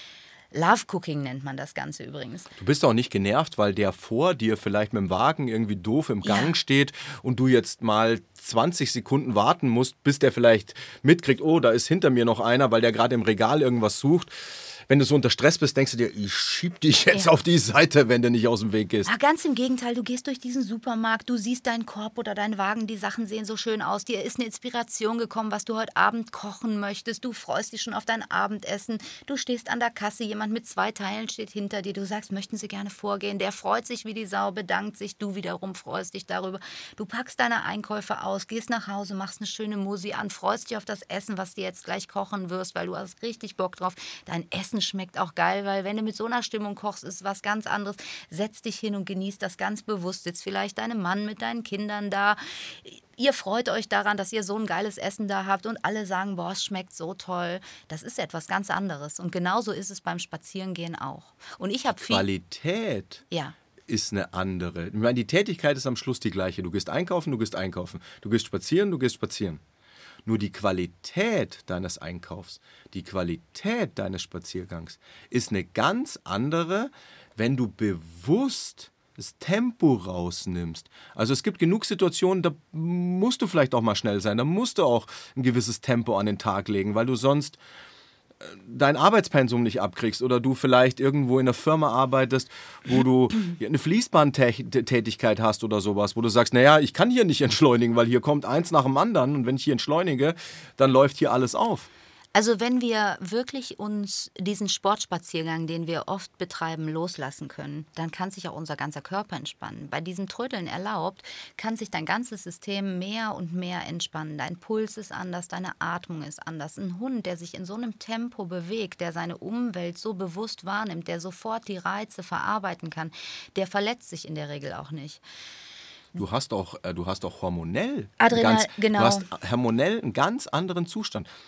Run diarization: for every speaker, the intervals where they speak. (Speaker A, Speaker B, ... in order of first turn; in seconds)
Speaker A: 0.5-2.5, 6.2-6.5, 19.0-62.3, 63.3-63.6, 102.3-125.2, 128.2-129.3
Speaker B: 2.6-19.1, 61.9-63.2, 63.9-69.6, 70.2-87.6, 88.4-101.9, 126.2-131.3